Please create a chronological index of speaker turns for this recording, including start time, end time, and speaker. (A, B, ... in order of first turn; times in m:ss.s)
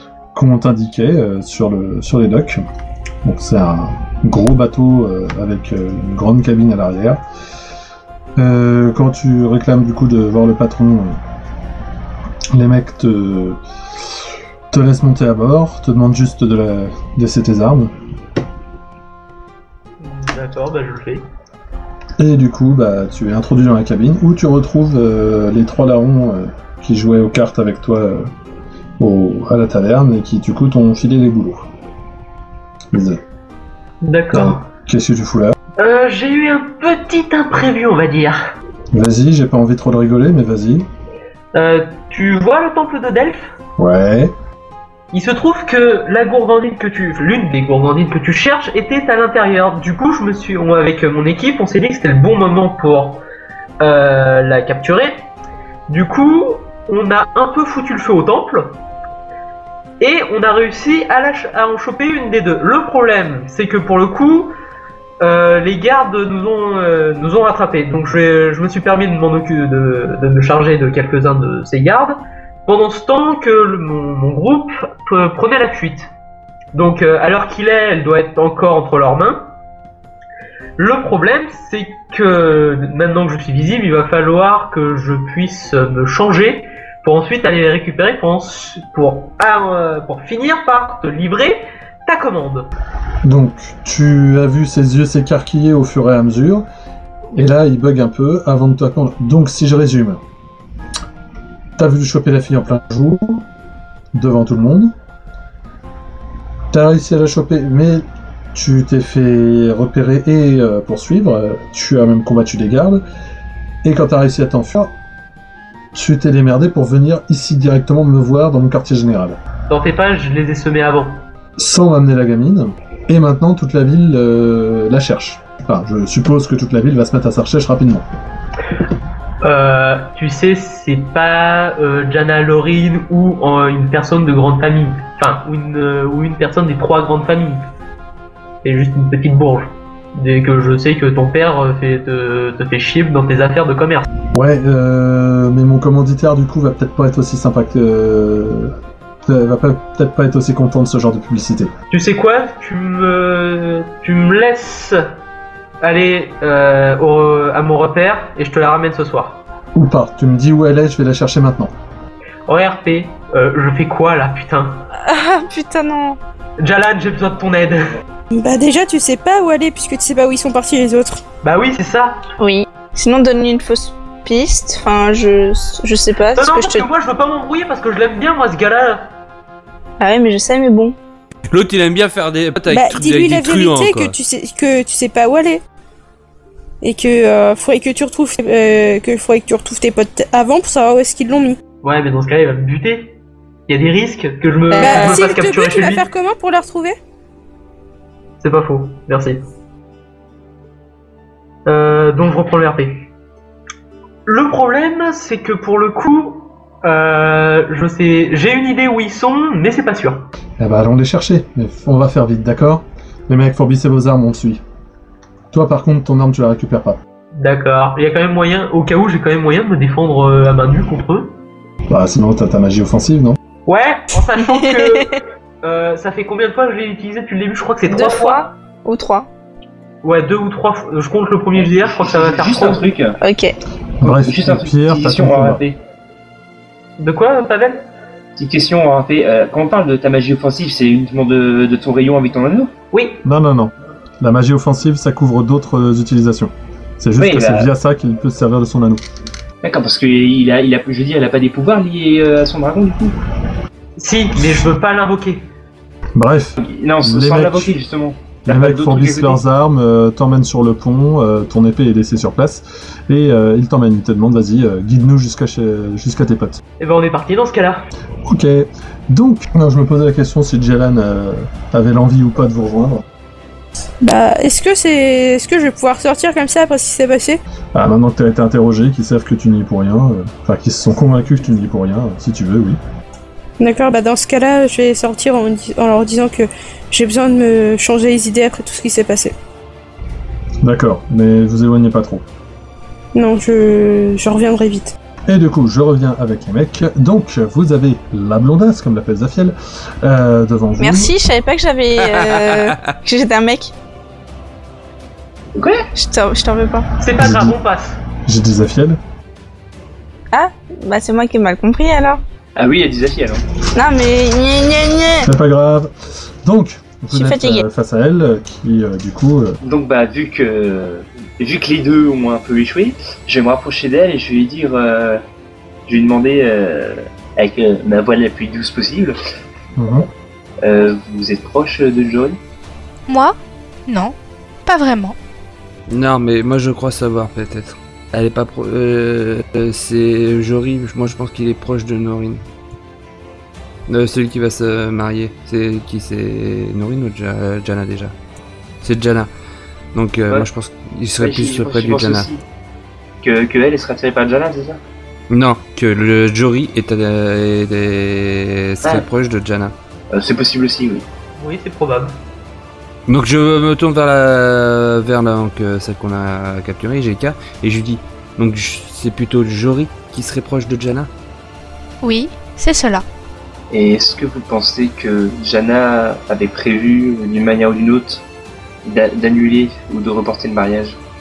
0:00.3-0:02.6 A
0:03.2-0:07.2 A
0:08.4-0:11.2 A
0:12.5-0:13.6 A
0:14.7-0:17.9 A
0:20.0-0:21.2 B
0:22.2-0:28.3 A
0:29.0-0:31.7 A
0:32.9-0:33.2 A
0:34.0-0:34.6 B
0:34.3-0:35.6 A
0:35.8-0:38.5 B
0:38.9-0:40.9 A
0:41.5-0:43.5 B
0:43.8-0:44.3 A
0:45.1-0:53.2 B
0:53.8-0:55.2 B
0:55.9-0:58.8 B
1:00.0-1:04.5 B
1:05.2-1:16.1 B
1:16.7-1:19.4 B
1:20.8-1:32.7 B
1:33.2-1:36.6 A
1:37.3-1:40.2 A
1:41.8-1:43.4 A
1:44.1-1:44.9 A
1:46.7-1:53.0 A
1:53.8-1:54.9 A
1:55.9-1:59.4 A
1:59.7-2:01.2 B
2:01.6-2:08.0 A
2:09.4-2:17.6 B
2:18.6-2:24.0 B
2:24.3-2:31.7 A
2:31.9-2:35.0 B
2:35.8-2:39.4 B
2:39.7-2:41.7 A
2:42.5-2:44.8 B
2:45.0-2:46.2 C
2:46.6-2:48.0 B
2:48.3-2:51.2 D
2:51.4-2:52.2 B
2:52.4-2:56.9 C
2:56.3-2:59.1 B
3:00.0-3:01.0 C
3:01.5-3:04.1 E
3:02.7-3:05.6 D
3:06.8-3:11.6 D
3:11.8-3:13.1 B
3:13.7-3:16.0 B
3:14.7-3:15.3 C
3:14.8-3:17.0 D
3:18.4-3:19.4 B
3:21.6-3:23.0 B
3:24.2-3:30.3 B
3:30.6-3:34.6 A
3:35.5-3:37.0 A
3:37.3-3:41.3 B
3:41.9-3:43.4 A
3:43.6-3:48.5 B
3:44.4-3:45.1 C
3:47.8-3:49.3 C
3:50.0-3:52.8 B
3:51.6-3:53.2 F
3:53.2-3:53.5 C
3:54.0-3:55.6 A
3:54.0-3:55.8 F
3:57.0-3:57.8 B
3:58.4-4:02.7 F
4:02.9-4:03.2 B
4:03.2-4:09.0 A
4:07.2-4:07.7 F
4:09.6-4:13.1 F
4:14.0-4:15.5 B
4:16.1-4:17.7 A
4:16.6-4:19.4 F
4:18.4-4:26.6 A
4:26.8-4:27.9 B
4:28.2-4:33.0 A
4:34.0-4:37.4 D
4:37.7-4:42.8 A
4:43.6-4:49.3 D
4:50.6-4:52.2 A
4:53.1-4:54.9 D
4:55.3-5:01.1 A
5:00.8-5:03.7 C
5:02.1-5:02.7 E
5:05.5-5:05.9 F
5:05.9-5:06.9 C
5:07.0-5:08.0 B
5:07.1-5:07.6 A
5:08.2-5:09.0 A
5:10.3-5:12.2 C
5:12.6-5:13.4 F
5:13.7-5:15.3 C
5:15.2-5:15.9 A
5:16.4-5:19.6 A
5:17.1-5:17.6 C
5:19.6-5:25.2 F
5:25.9-5:29.2 F
5:29.8-5:30.1 A
5:30.6-5:32.4 F
5:33.1-5:33.4 G
5:33.9-5:34.1 G
5:34.6-5:35.2 G
5:35.9-5:42.4 E
5:43.9-5:48.1 E
5:48.8-5:49.3 E
5:49.9-5:52.3 E
5:51.2-5:52.4 F
5:53.2-5:54.8 F
5:55.3-5:59.7 E
6:00.1-6:01.0 F
6:01.4-6:02.2 B
6:03.1-6:11.1 E
6:12.0-6:13.0 G
6:13.7-6:18.2 F
6:18.8-6:21.0 F